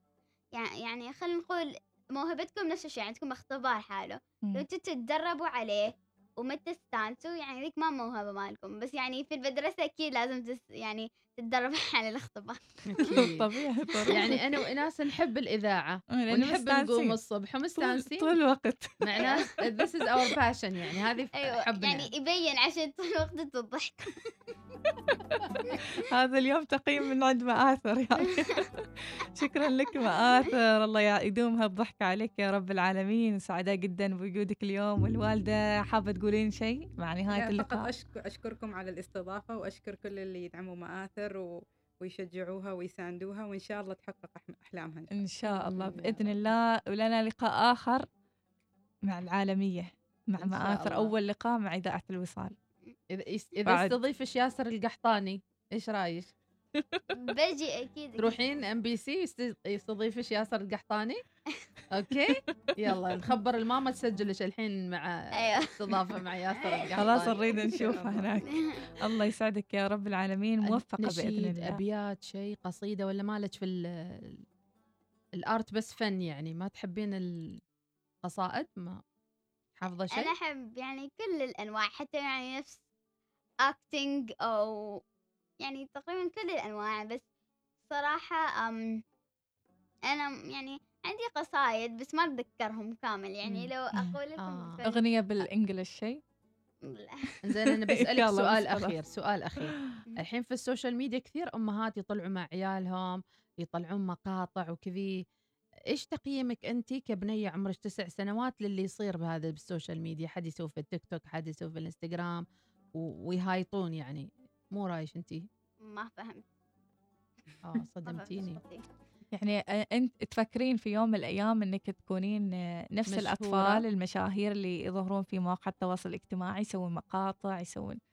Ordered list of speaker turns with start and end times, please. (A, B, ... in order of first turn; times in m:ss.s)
0:00.5-0:12.7 A
0:12.9-0:13.4 B
0:13.1-0:14.3 C
0:14.1-0:18.3 B
0:16.2-0:17.2 C
0:17.8-0:19.0 C
0:19.0-0:22.1 B
0:21.4-0:24.1 A
0:26.0-0:37.9 C
0:37.3-0:45.1 D
0:45.2-0:48.1 C
0:45.5-0:46.2 B
0:49.1-0:52.6 C
0:50.4-0:51.1 B
0:53.1-0:56.3 B
0:53.7-0:54.0 C
0:57.2-0:58.4 A
0:58.2-1:01.2 B
1:01.9-1:08.5 B
1:05.4-1:05.7 A
1:07.0-1:11.8 C
1:08.5-1:08.8 A
1:10.6-1:14.4 B
1:15.4-1:17.6 B
1:18.2-1:19.0 B
1:19.8-1:20.3 B
1:20.1-1:22.8 A
1:23.7-1:25.0 A
1:25.6-1:27.2 A
1:27.9-1:29.0 A
1:30.1-1:35.1 A
1:34.4-1:34.8 B
1:34.9-1:36.2 C
1:36.8-1:37.2 A
1:37.4-1:45.2 B
1:37.7-1:39.0 C
1:45.9-1:52.4 B
1:53.0-1:55.5 B
1:55.8-1:56.4 A
1:57.6-1:58.6 B
1:58.0-1:58.9 A
1:59.3-2:08.0 C
2:03.1-2:03.8 B